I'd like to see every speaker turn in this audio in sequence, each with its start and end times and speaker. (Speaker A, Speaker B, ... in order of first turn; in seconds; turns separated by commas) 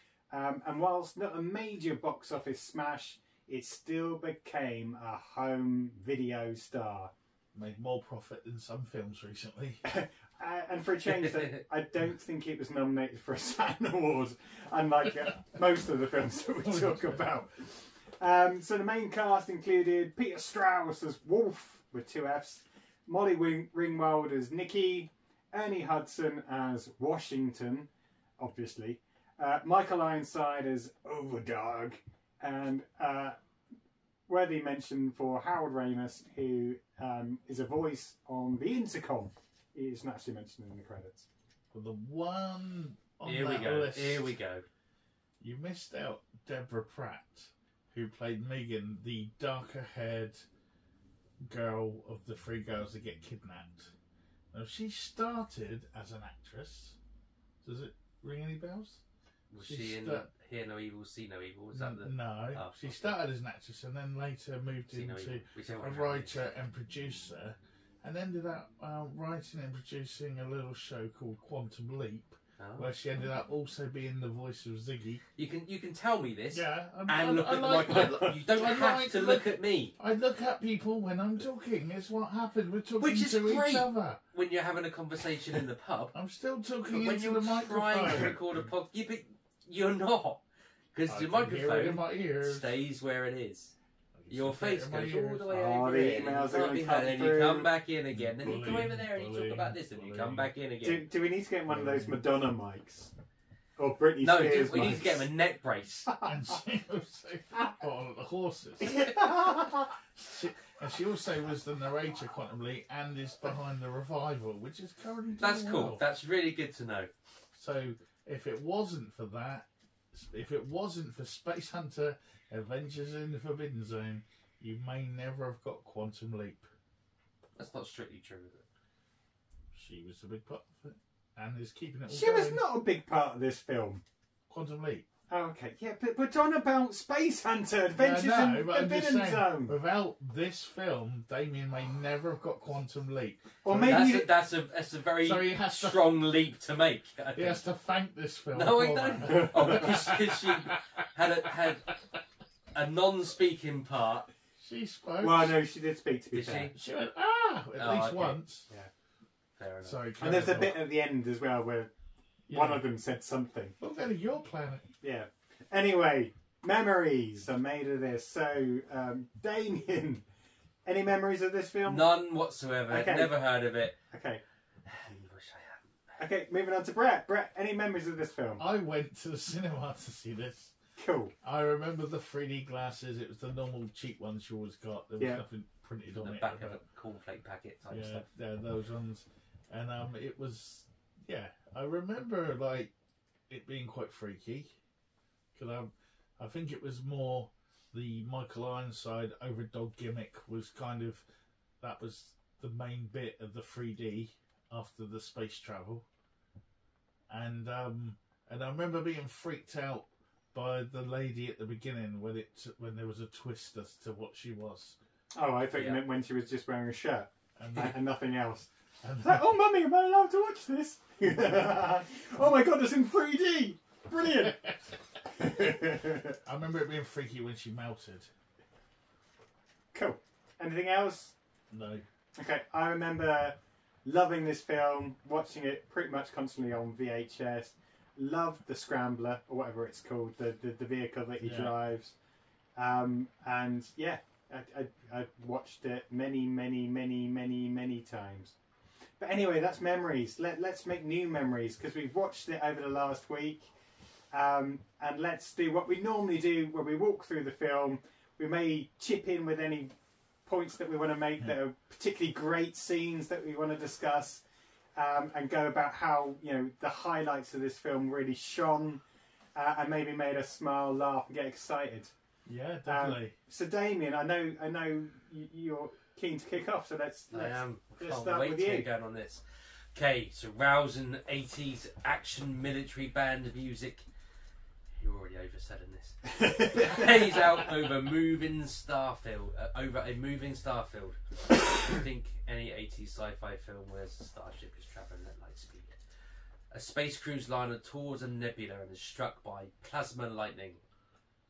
Speaker A: 0.3-7.1, Speaker B: 7.5-9.8, Speaker A: 9.8-33.4, Speaker C: 11.1-11.4, Speaker B: 16.6-17.2, Speaker A: 34.3-41.3, Speaker B: 41.7-44.3, Speaker C: 43.2-44.6, Speaker B: 45.4-50.5, Speaker B: 51.4-53.9, Speaker B: 54.5-57.0, Speaker B: 57.6-59.0, Speaker C: 59.5-63.1, Speaker B: 59.6-60.3, Speaker B: 61.7-75.2, Speaker C: 64.9-66.4, Speaker C: 72.6-72.9, Speaker C: 75.4-80.0, Speaker B: 76.5-84.2, Speaker A: 77.9-78.3, Speaker C: 83.0-86.1, Speaker B: 86.1-88.6, Speaker C: 86.9-90.4, Speaker C: 90.9-93.8, Speaker B: 91.1-92.7, Speaker B: 94.2-95.5, Speaker C: 94.3-101.1, Speaker A: 95.5-97.7, Speaker B: 98.1-100.5, Speaker A: 100.8-103.1, Speaker B: 101.7-102.2, Speaker A: 103.8-105.2, Speaker C: 104.2-106.1, Speaker B: 104.7-105.0, Speaker B: 106.2-116.0, Speaker A: 108.8-109.9, Speaker C: 115.4-117.1, Speaker B: 117.5-126.7, Speaker C: 127.6-128.6, Speaker B: 129.7-132.6, Speaker A: 132.1-134.0, Speaker B: 134.5-135.1, Speaker A: 135.3-139.8, Speaker B: 138.0-144.1, Speaker A: 143.6-144.3, Speaker C: 143.8-147.6, Speaker B: 145.2-146.1, Speaker B: 147.3-151.1, Speaker C: 148.5-151.9, Speaker A: 149.3-149.9, Speaker C: 152.7-154.3, Speaker B: 154.6-155.6, Speaker A: 155.2-156.7, Speaker C: 156.3-156.7, Speaker B: 156.7-158.7, Speaker C: 157.8-158.4, Speaker C: 159.6-160.0, Speaker B: 159.8-160.8, Speaker A: 160.2-161.9, Speaker B: 162.5-162.8, Speaker A: 162.5-163.8, Speaker B: 163.8-164.9, Speaker A: 165.0-170.2, Speaker A: 170.9-172.1, Speaker C: 171.9-174.0, Speaker A: 172.9-173.3, Speaker A: 174.1-174.4, Speaker C: 174.9-175.8, Speaker A: 176.2-178.6, Speaker B: 178.6-180.8, Speaker A: 181.0-181.3, Speaker B: 181.4-186.8, Speaker C: 186.1-188.3, Speaker B: 187.9-192.9, Speaker B: 193.5-194.7, Speaker B: 195.6-201.2, Speaker B: 201.8-206.1, Speaker B: 207.3-215.0, Speaker A: 215.3-218.7, Speaker C: 215.7-216.0, Speaker B: 217.6-218.0, Speaker B: 219.0-219.4, Speaker A: 219.2-224.6, Speaker B: 224.3-225.8, Speaker A: 225.3-226.4, Speaker B: 226.4-228.3, Speaker A: 229.9-231.4, Speaker B: 231.7-232.1, Speaker A: 232.4-242.2, Speaker B: 241.4-241.7, Speaker A: 242.8-248.6, Speaker A: 249.2-253.7, Speaker A: 254.3-264.4, Speaker A: 265.0-269.0, Speaker A: 269.6-272.1, Speaker B: 272.5-273.4, Speaker A: 272.9-278.9, Speaker C: 277.3-279.4, Speaker C: 279.9-284.1, Speaker C: 285.0-295.9, Speaker A: 286.3-287.2, Speaker C: 296.7-300.8